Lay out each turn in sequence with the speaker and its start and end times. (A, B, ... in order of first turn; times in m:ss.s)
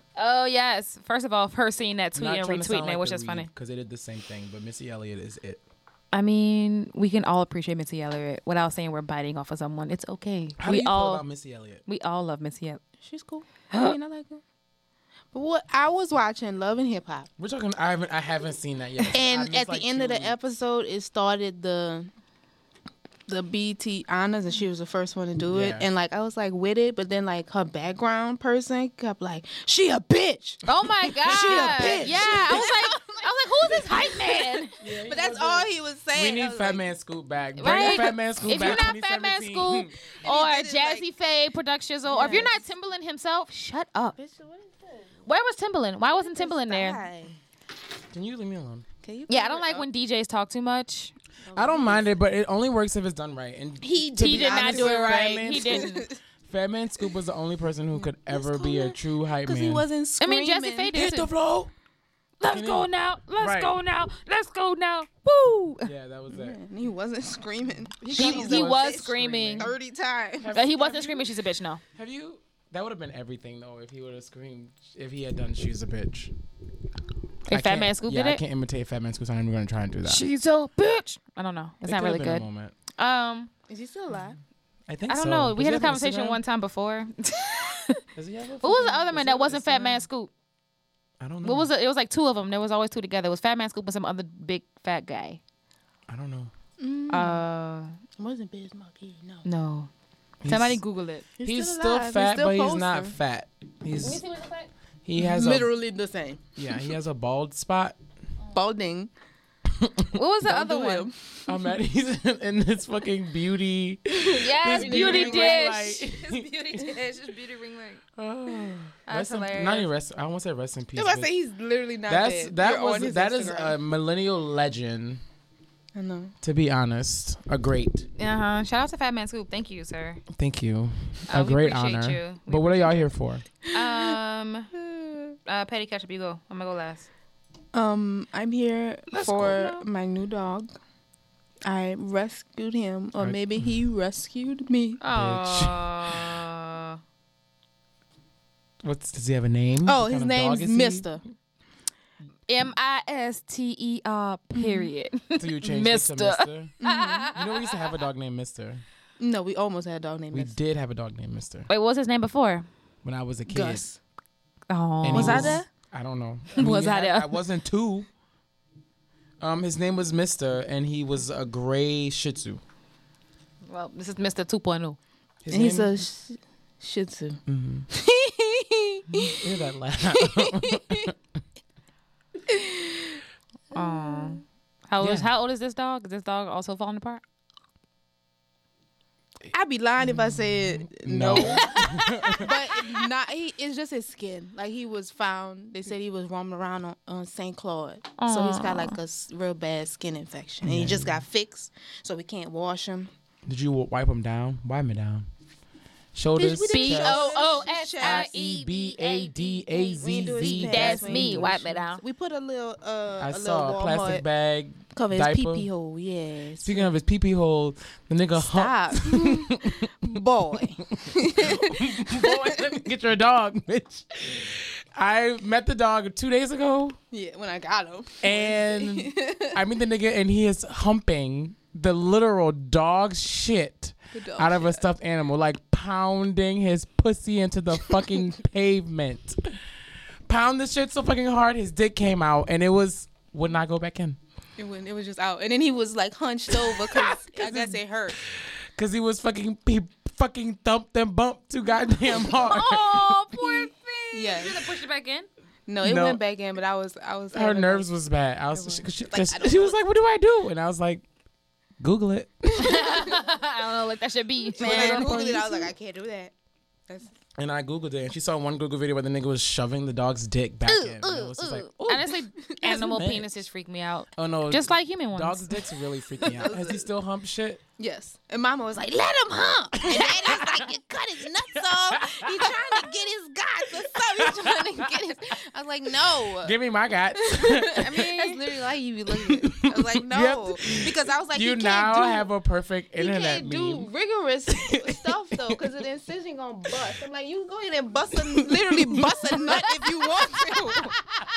0:00.2-0:03.5 A
0:02.1-0:05.6 B
0:06.1-0:11.2 A
0:10.6-0:11.8 B
0:11.8-0:12.8 A
0:13.0-0:14.4 C
0:13.7-0:14.0 A
0:15.3-0:17.3 C
0:17.4-0:20.4 B
0:19.1-0:22.1 C
0:23.3-0:30.6 C
0:25.5-0:25.8 B
0:30.6-0:34.7 A
0:31.2-0:32.6 B
0:31.2-0:33.1 C
0:33.7-0:34.0 C
0:34.8-0:39.9 B
0:34.9-0:36.8 C
0:37.6-0:44.2 A
0:37.6-0:38.8 C
0:40.2-0:41.0 C
0:42.0-0:42.6 C
0:44.2-0:45.1 C
0:45.2-0:47.0 A
0:46.1-0:47.4 C
0:48.1-0:48.9 B
0:49.0-0:49.8 C
0:49.3-0:51.1 A
0:51.4-0:52.1 C
0:51.5-0:59.9 B
0:53.8-0:56.2 C
0:54.2-0:56.1 A
0:58.0-1:00.9 C
1:00.2-1:01.3 A
1:00.9-1:01.7 B
1:02.4-1:05.9 A
1:02.4-1:03.8 B
1:05.8-1:06.6 B
1:06.3-1:10.5 C
1:08.0-1:09.7 B
1:08.1-1:09.7 A
1:10.4-1:11.4 B
1:10.5-1:11.8 A
1:11.9-1:16.3 B
1:17.5-1:18.4 A
1:17.5-1:20.2 B
1:20.0-1:22.4 A
1:21.8-1:22.7 B
1:23.0-1:23.5 A
1:23.7-1:24.4 C
1:24.9-1:26.4 B
1:25.1-1:28.0 A
1:28.1-1:30.0 B
1:28.6-1:30.3 A
1:31.2-1:31.7 B
1:31.4-1:35.4 A
1:36.1-1:36.5 B
1:36.8-1:37.4 C
1:37.1-1:37.9 A
1:38.2-1:39.4 C
1:39.4-1:39.9 A
1:40.4-1:40.8 B
1:40.4-1:41.2 A
1:41.4-1:43.2 C
1:41.4-1:44.2 B
1:44.0-1:44.7 A
1:45.0-1:45.7 B
1:45.2-1:46.9 C
1:46.6-1:48.0 B
1:48.5-1:49.1 C
1:49.8-1:50.1 B
1:50.1-1:51.1 A
1:50.4-1:51.6 C
1:51.4-1:56.9 B
1:54.2-1:55.8 C
1:54.3-1:58.0 A
1:58.2-2:01.3 B
1:59.1-1:59.9 A
2:00.9-2:03.8 C
2:02.1-2:05.2 B
2:05.9-2:06.3 C
2:06.4-2:08.1 B
2:08.2-2:10.2 A
2:10.3-2:13.4 B
2:11.3-2:13.2 A
2:13.7-2:14.7 A
2:14.7-2:15.3 C
2:15.4-2:17.1 A
2:17.7-2:20.7 C
2:19.1-2:19.6 B
2:19.2-2:19.8 A
2:21.6-2:25.0 C
2:23.2-2:23.8 B
2:25.0-2:27.0 A
2:25.1-2:26.2 B
2:28.8-2:31.2 B
2:29.8-2:31.2 C
2:32.5-2:37.4 A
2:35.4-2:36.7 B
2:36.8-2:37.3 C
2:37.3-2:38.8 B
2:39.2-2:40.6 C
2:40.3-2:41.7 B
2:41.7-2:42.7 A
2:43.0-2:43.8 B
2:43.5-2:44.0 C
2:44.7-2:45.6 A
2:45.0-2:48.1 B
2:45.1-2:45.6 C
2:46.6-2:47.4 A
2:49.4-2:52.6 B
2:53.7-2:55.0 A
2:55.4-2:55.9 B
2:55.5-2:57.4 C
2:57.5-2:57.9 B
2:57.9-2:59.4 C
2:59.3-3:01.1 B
3:00.1-3:01.1 C
3:02.5-3:03.2 C
3:03.7-3:04.4 C
3:03.7-3:07.2 A
3:05.0-3:05.3 B
3:09.5-3:11.8 C
3:10.0-3:12.6 B
3:12.3-3:23.1 C
3:18.2-3:19.0 A
3:20.6-3:21.2 B
3:23.4-3:25.3 B
3:26.1-3:31.6 B
3:26.4-3:28.3 C
3:26.6-3:32.0 A
3:30.0-3:34.2 C
3:33.2-3:35.7 B
3:34.9-3:36.9 C
3:36.6-3:47.0 B
3:38.4-3:42.7 C
3:47.1-3:49.6 C
3:48.2-3:59.4 B
3:54.1-3:54.8 C
4:00.3-4:04.2 B
4:04.6-4:08.2 C
4:06.5-4:13.2 B
4:12.2-4:15.3 A
4:13.5-4:14.7 C
4:15.7-4:17.9 C
4:15.8-4:16.2 B
4:17.3-4:21.0 B
4:18.5-4:19.8 C
4:21.8-4:23.0 B
4:22.6-4:25.7 A
4:24.6-4:26.3 C
4:24.6-4:25.2 B
4:27.4-4:33.4 B
4:30.7-4:35.4 A
4:34.2-4:37.6 B
4:36.2-4:36.8 C
4:37.8-4:46.5 C
4:39.8-4:40.7 B
4:41.5-4:42.9 B
4:43.9-4:44.9 B
4:46.4-4:48.1 B
4:47.1-4:52.3 C
4:49.1-4:53.9 B
4:53.0-5:00.9 C
4:54.5-4:55.6 B
4:58.3-4:59.6 B